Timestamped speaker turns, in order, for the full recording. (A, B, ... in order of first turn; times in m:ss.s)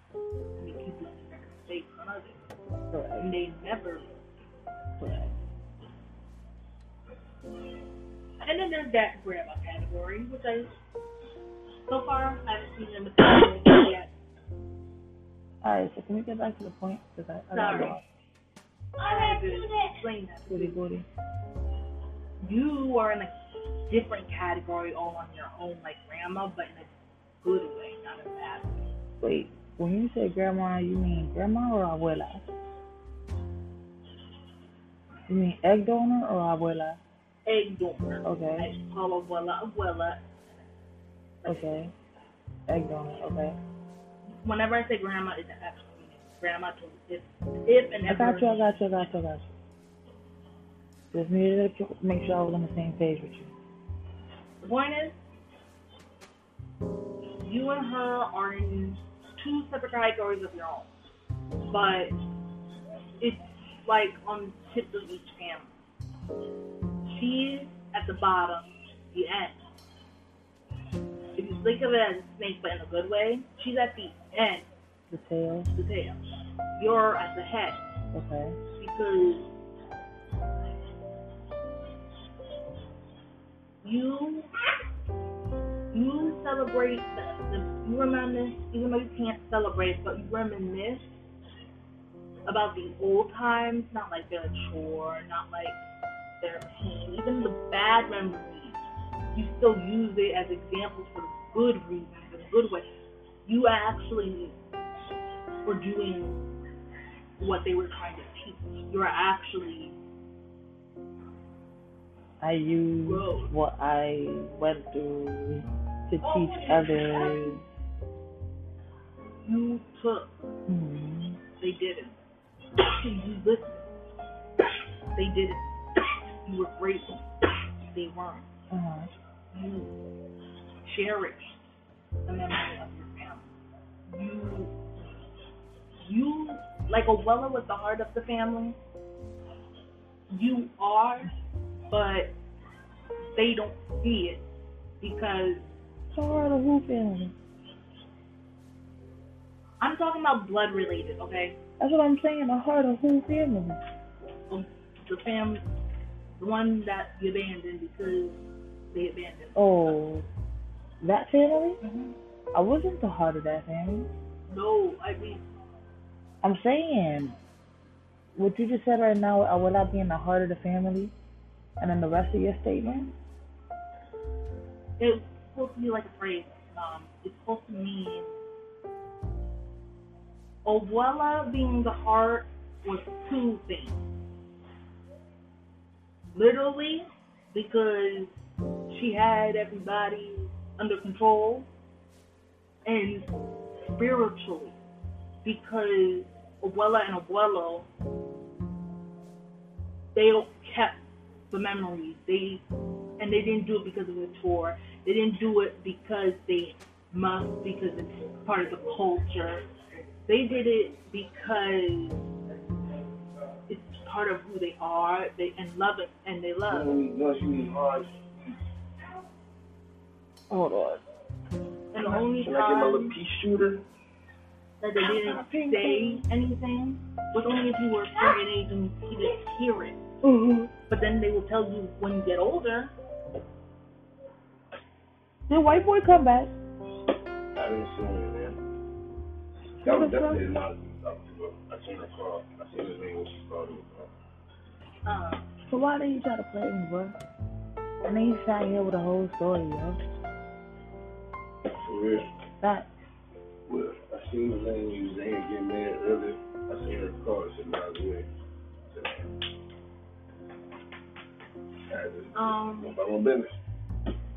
0:00.6-0:02.4 A
0:02.9-0:03.3 B
0:03.2-0:04.1 A
0:05.0-0:05.3 A
0:08.4-0:10.7 A
0:11.9-0:14.1 A
0:15.6-0:18.0 B
0:17.5-0:18.0 A
0:19.0-0:20.8 A
0:20.5-0:21.1 B
0:22.4-0:23.3 A
0:23.9-0:28.9 A
0:29.2-0:32.5 B
0:35.3-0:37.0 B
0:37.4-0:40.7 A
0:38.2-0:38.7 B
0:41.4-0:41.8 A
0:41.5-0:41.9 B
0:42.7-0:43.6 B
0:44.3-0:49.1 A
0:48.1-0:49.6 B
0:51.1-0:53.5 B
0:54.6-0:55.2 A
0:57.4-1:00.9 A
1:01.7-1:02.2 A
1:03.2-1:05.7 A
1:07.1-1:09.6 A
1:11.4-1:14.7 A
1:15.1-1:15.7 B
1:15.7-1:16.2 A
1:16.8-1:17.8 A
1:18.1-1:18.6 B
1:18.8-1:19.5 A
1:23.8-1:24.5 A
1:25.9-1:31.1 A
1:32.5-1:35.8 A
1:36.4-1:38.8 A
1:39.3-1:42.9 A
1:43.5-1:44.6 A
1:45.6-1:46.5 A
1:47.4-1:50.0 A
1:52.4-1:57.6 B
1:53.0-1:53.5 A
1:56.2-1:57.6 A
1:59.4-2:00.3 A
2:00.7-2:01.4 B
2:01.6-2:02.2 A
2:02.8-2:03.9 A
2:05.2-2:05.6 A
2:06.4-2:07.3 A
2:07.8-2:08.5 A
2:08.7-2:09.1 B
2:09.5-2:10.0 A
2:10.8-2:11.6 A
2:12.3-2:13.5 A
2:14.1-2:14.7 A
2:16.0-2:18.8 A
2:20.3-2:21.3 A
2:21.9-2:22.3 A
2:23.4-2:24.4 A
2:25.0-2:25.7 A
2:26.1-2:27.4 B
2:29.8-2:31.6 A
2:31.8-2:33.8 B
2:34.5-2:35.7 A
2:36.4-2:38.4 A
2:38.9-2:39.6 A
2:39.6-2:40.3 B
2:41.0-2:41.8 B
2:41.8-2:42.2 A
2:42.5-2:44.1 B
2:44.5-2:45.4 A
2:46.4-2:47.4 B
2:48.4-2:51.1 B
2:51.8-2:53.1 B
2:55.0-2:58.3 A
3:00.6-3:04.0 A
3:06.3-3:08.3 A
3:08.9-3:11.7 A
3:12.8-3:13.3 A
3:13.9-3:14.8 A
3:15.4-3:17.9 A
3:20.2-3:22.6 A
3:23.2-3:29.6 A
3:30.3-3:32.2 A
3:33.7-3:37.0 A
3:36.7-3:38.6 C
3:40.5-3:41.0 B
3:41.9-3:43.2 A
3:42.3-3:43.8 C
3:44.8-3:50.0 A
3:45.1-3:46.2 B
3:50.2-3:50.7 B
3:50.9-3:52.9 A
3:55.5-3:56.5 B
3:57.6-3:58.6 C
3:59.8-4:00.5 B
3:59.8-4:04.1 C
4:05.0-4:05.5 A
4:05.7-4:07.2 B
4:08.0-4:10.0 B
4:11.7-4:12.3 C
4:12.6-4:12.9 B
4:13.7-4:18.3 C
4:18.9-4:19.3 C
4:21.9-4:23.6 C
4:22.3-4:23.0 A